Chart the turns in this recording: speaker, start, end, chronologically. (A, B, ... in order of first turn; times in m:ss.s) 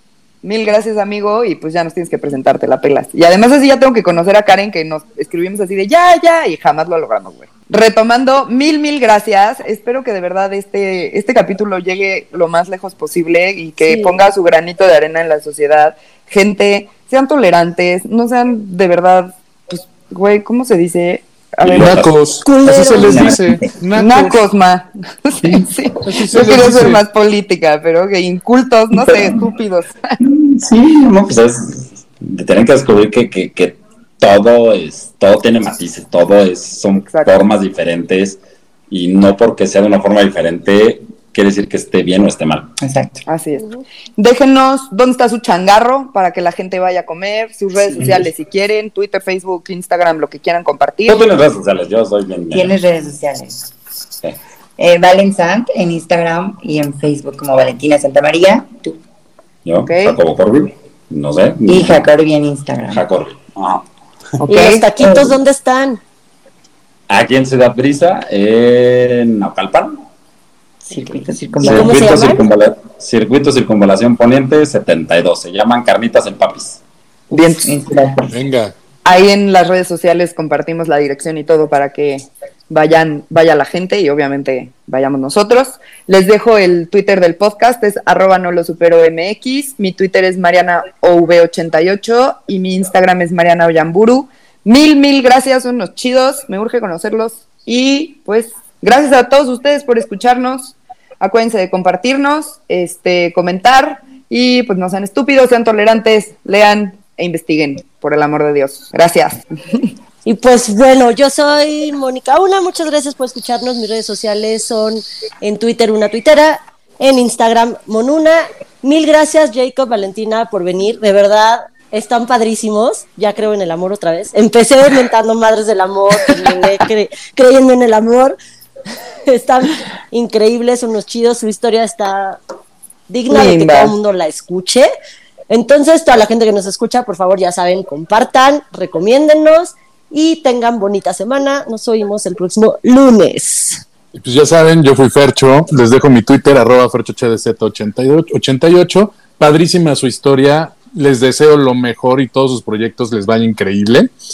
0:00.4-0:22.0 A
0:13.8-0:14.2 B
0:21.6-0:22.4 C
0:21.8-0:24.4 D
0:22.4-0:23.4 B
0:22.7-0:23.8 E
0:24.0-0:30.2 A
0:26.0-0:27.0 D
0:29.0-0:29.4 E
0:30.2-0:42.8 C
0:37.1-0:37.4 A
0:42.8-0:43.2 E
0:43.3-0:51.2 A
0:43.6-0:43.8 B
0:51.1-0:52.7 C
0:52.5-0:53.7 E
0:54.8-0:59.0 E
0:59.6-1:02.1 C
0:59.9-1:00.2 A
1:01.7-1:03.0 E
1:02.9-1:03.8 C
1:04.4-1:04.8 A
1:04.5-1:06.0 B
1:04.5-1:05.4 E
1:07.1-1:10.1 C
1:10.9-1:12.0 E
1:11.6-1:12.5 B
1:11.6-1:16.8 C
1:17.3-1:17.8 A
1:17.6-1:18.4 E
1:18.3-1:18.8 D
1:19.0-1:49.9 A
1:50.2-2:08.4 B
2:09.3-2:12.4 B
2:13.1-2:14.9 B
2:13.3-2:13.9 A
2:15.5-2:23.8 B
2:24.1-2:34.1 D